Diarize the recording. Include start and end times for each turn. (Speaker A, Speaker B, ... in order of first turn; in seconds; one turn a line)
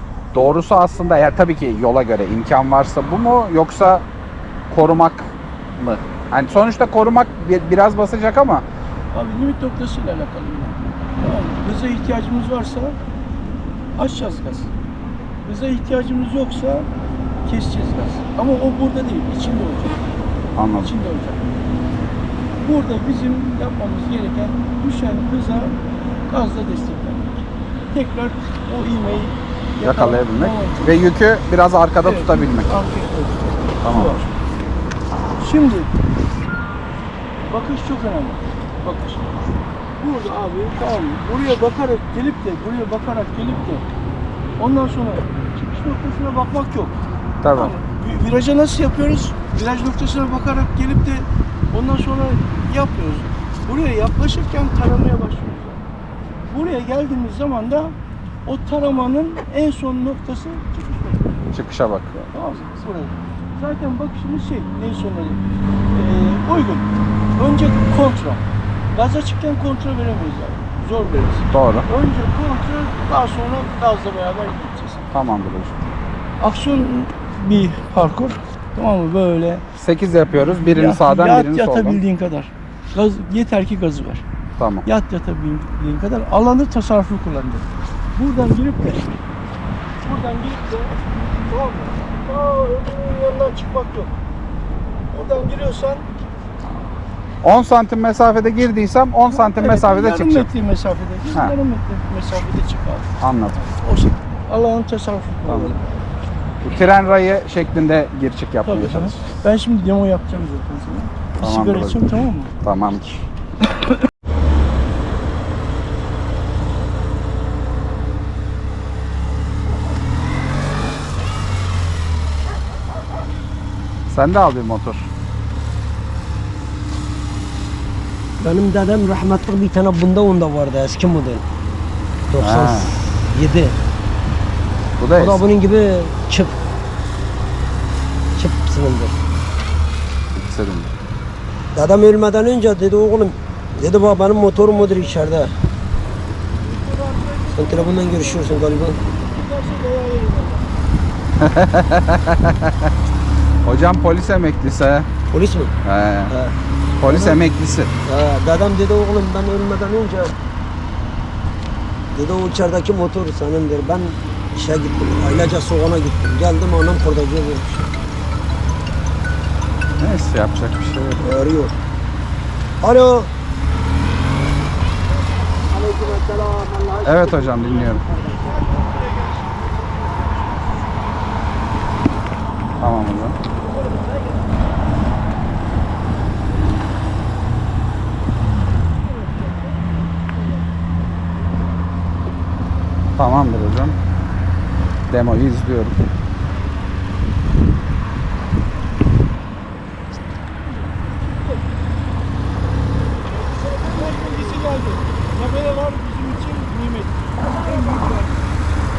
Speaker A: 0.3-4.0
Speaker A: 4.7-8.7
Speaker B: 9.1-13.0
Speaker B: 14.0-14.7
Speaker B: 15.4-16.9
Speaker B: 17.4-20.0
Speaker A: 20.6-20.9
Speaker B: 20.8-21.4
Speaker B: 22.6-27.3
Speaker B: 27.9-31.1
Speaker A: 29.8-32.7
Speaker B: 32.0-34.3
Speaker A: 33.8-34.2
Speaker B: 35.4-35.9
Speaker B: 37.5-39.4
Speaker B: 40.0-43.9
Speaker B: 44.6-47.0
Speaker A: 47.4-47.8
Speaker B: 47.5-55.8
Speaker B: 56.5-58.0
Speaker B: 58.5-61.3
Speaker A: 61.5-62.1
Speaker B: 62.3-65.4
Speaker B: 65.9-75.0
Speaker A: 71.5-71.9
Speaker A: 75.1-75.9
Speaker B: 76.4-79.7
Speaker A: 79.8-82.0
Speaker B: 80.3-84.3
Speaker A: 84.6-84.9
Speaker B: 84.8-89.1
Speaker B: 90.0-94.1
Speaker B: 95.1-96.1
Speaker A: 97.4-100.5
Speaker B: 99.3-105.8
Speaker A: 103.2-103.6
Speaker A: 105.5-105.8
Speaker A: 106.6-109.2
Speaker B: 108.7-112.5
Speaker A: 111.4-112.0
Speaker A: 112.6-113.1
Speaker A: 124.1-125.1
Speaker C: 128.4-131.4
Speaker C: 132.3-133.8
Speaker A: 132.4-132.9
Speaker A: 135.0-135.5
Speaker C: 135.1-136.6
Speaker C: 138.4-139.2
Speaker A: 140.3-140.9
Speaker C: 141.8-145.5
Speaker B: 144.5-145.3
Speaker B: 146.6-150.7
Speaker C: 147.5-149.0
Speaker A: 151.4-152.9
Speaker A: 153.6-155.1
Speaker C: 155.3-155.7
Speaker A: 155.8-156.3
Speaker C: 156.3-157.4
Speaker A: 157.0-157.9
Speaker C: 158.1-160.3
Speaker C: 162.1-167.8
Speaker A: 170.0-171.3
Speaker C: 171.2-171.7
Speaker C: 172.8-173.3
Speaker B: 175.4-176.0
Speaker C: 175.7-178.7
Speaker A: 177.0-178.0
Speaker B: 178.2-181.0
Speaker A: 182.8-183.4
Speaker B: 183.8-184.3
Speaker A: 193.2-194.0
Speaker A: 195.1-196.0
Speaker B: 200.7-201.7
Speaker B: 203.4-208.6